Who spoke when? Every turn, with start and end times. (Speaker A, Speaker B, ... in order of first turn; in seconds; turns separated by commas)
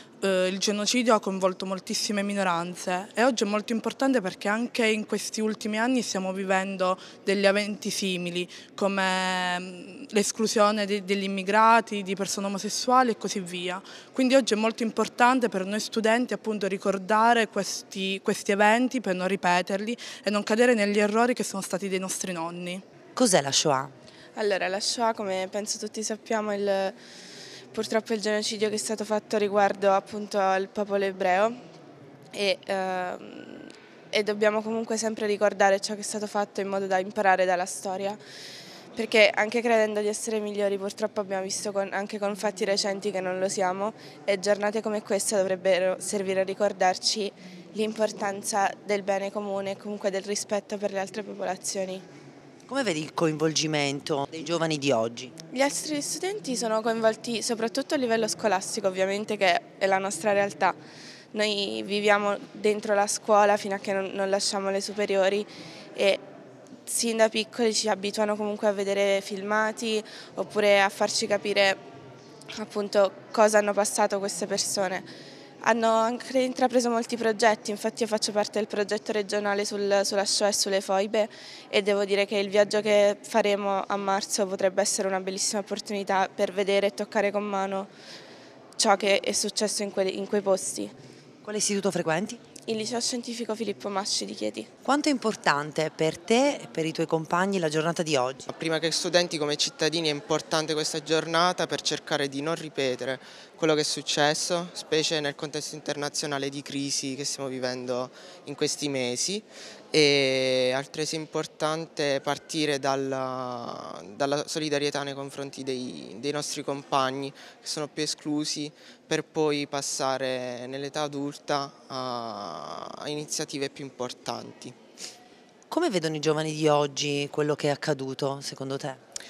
Speaker A: 0.2-22.8, Speaker B: 23.1-23.9, Speaker C: 24.4-27.0, Speaker C: 27.7-31.6, Speaker C: 32.3-38.2, Speaker C: 39.0-52.0, Speaker B: 52.7-55.3, Speaker C: 55.5-60.8, Speaker C: 61.3-66.2, Speaker C: 66.9-71.8, Speaker C: 72.5-75.1, Speaker C: 75.6-87.9, Speaker C: 88.8-90.9, Speaker B: 91.4-92.4, Speaker C: 92.7-94.7, Speaker B: 94.8-98.5, Speaker D: 98.5-124.8, Speaker B: 125.7-129.0